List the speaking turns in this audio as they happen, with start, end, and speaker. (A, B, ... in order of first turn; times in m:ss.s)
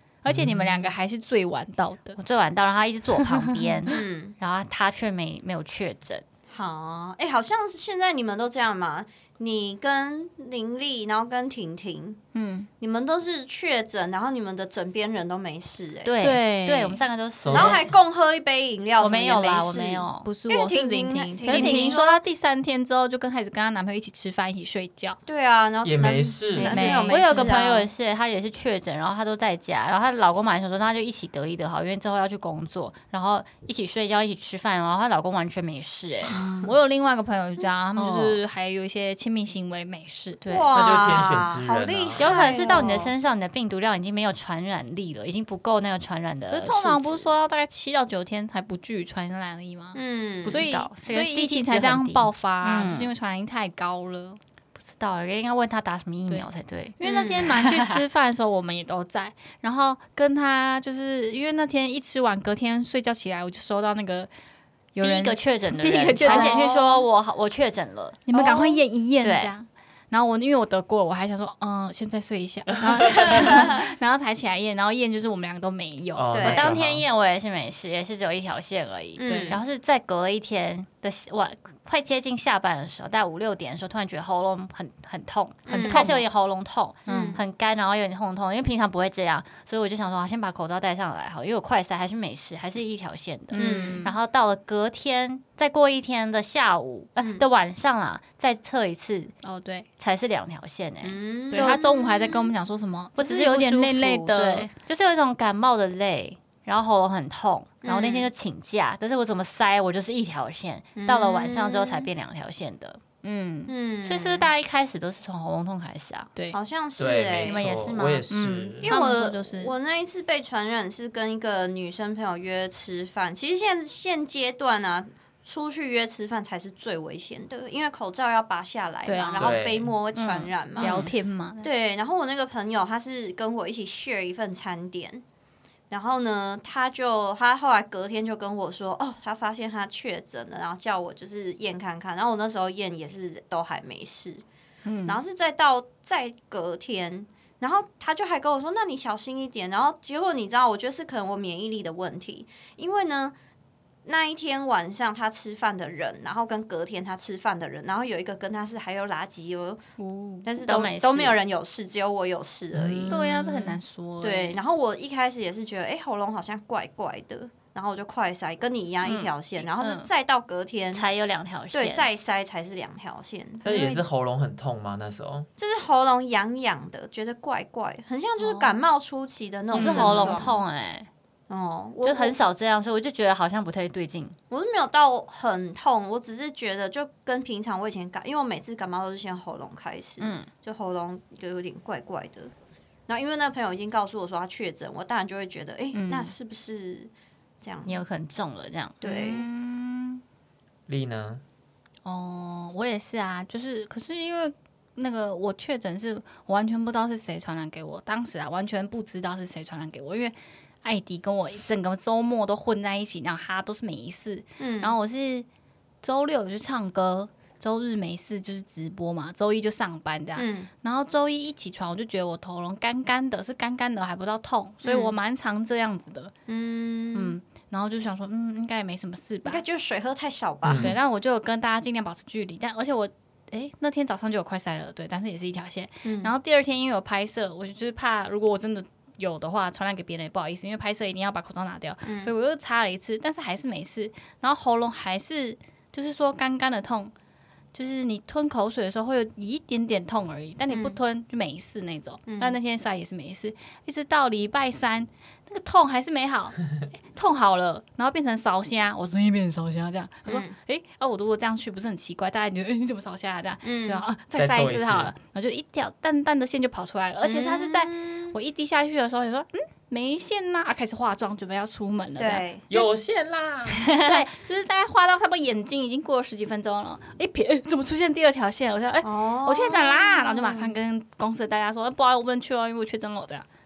0:00.2-0:02.2 A
0:00.3-0:00.8 B
0:02.2-0:06.2 C
0:03.6-0:03.9 A
0:03.9-0:04.4 D
0:06.5-0:12.2 D
0:12.3-0:12.7 A
0:12.8-0:16.2 D
0:16.0-0:17.8 C
0:16.2-0:17.0 A
0:17.4-0:17.9 B
0:17.5-0:22.2 D
0:19.0-0:20.3 C
0:20.2-0:25.2 A
0:21.4-0:22.0 C
0:25.2-0:27.9 D
0:25.8-0:26.9 B
0:26.6-0:27.5 A
0:26.7-0:36.4 C
0:36.3-0:40.5 A
0:38.0-0:38.4 D
0:40.4-0:43.1 D
0:40.7-0:42.4 B
0:42.2-0:47.3 C
0:42.5-0:42.8 A
0:46.5-0:54.4 A
0:49.9-0:50.9 D
0:50.4-0:53.1 C
0:54.8-0:58.0 C
0:56.3-1:04.3 A
0:57.0-0:57.4 D
1:04.9-1:06.7 A
1:05.0-1:09.5 C
1:06.2-1:07.1 D
1:08.3-1:16.3 A
1:13.2-1:13.8 D
1:16.1-1:17.0 B
1:16.3-1:16.7 D
1:16.5-1:39.3 C
1:19.2-1:19.6 D
1:19.2-1:19.6 A
1:25.7-1:26.2 A
1:25.7-1:26.2 D
1:27.1-1:27.4 A
1:27.1-1:27.4 D
1:33.5-1:34.2 A
1:33.6-1:34.0 D
1:37.2-1:37.5 D
1:39.4-1:39.9 A
1:40.0-1:41.8 C
1:41.0-1:42.5 D
1:41.5-1:44.7 A
1:43.2-1:53.0 C
1:47.8-1:48.3 D
1:51.0-1:52.1 D
1:53.2-1:53.7 A
1:53.7-1:54.5 D
1:54.0-1:56.3 C
1:56.5-1:57.6 D
1:57.0-1:58.9 B
1:57.4-1:58.2 C
1:58.3-1:59.7 A
1:58.8-2:11.1 D
2:09.1-2:09.6 A
2:09.4-2:09.9 B
2:10.1-2:11.7 A
2:10.8-2:11.1 C
2:11.6-2:15.2 D
2:15.9-2:24.4 D
2:24.8-2:25.2 A
2:25.0-2:33.3 D
2:34.0-2:39.8 D
2:40.0-2:40.5 A
2:40.4-2:43.2 D
2:40.6-2:41.4 C
2:42.8-2:43.8 C
2:43.1-2:44.6 A
2:44.2-2:51.0 D
2:49.0-2:49.3 C
2:49.8-2:50.1 A
2:50.9-2:52.0 C
2:51.7-2:53.6 D
2:53.6-2:54.0 A
2:53.6-2:55.5 B
2:55.6-3:00.6 D
2:59.7-3:01.1 C
2:59.7-3:00.5 A
3:01.5-3:02.4 D
3:02.0-3:04.4 C
3:04.5-3:12.5 D
3:10.2-3:10.5 C
3:13.1-3:17.1 D
3:15.9-3:16.3 A
3:17.6-3:18.0 D
3:17.9-3:19.0 C
3:19.0-3:19.5 D
3:19.0-3:20.2 A
3:20.9-3:21.4 B
3:22.0-3:35.5 A
3:34.6-3:34.9 D
3:36.0-3:46.3 A
3:40.4-3:40.7 D
3:44.8-3:45.1 D
3:46.5-3:47.4 D
3:47.1-3:49.6 A
3:49.4-3:50.9 D
3:50.6-3:51.0 B
3:50.8-4:07.1 A
3:56.0-3:56.3 D
4:02.0-4:02.3 D
4:07.7-4:32.9 A
4:10.7-4:11.0 D
4:12.3-4:12.6 D
4:20.3-4:20.6 D
4:23.6-4:24.0 D
4:24.3-4:25.1 B
4:27.2-4:28.4 D
4:32.2-4:32.6 D
4:32.7-4:33.8 B
4:34.0-4:43.4 A
4:39.0-4:40.7 D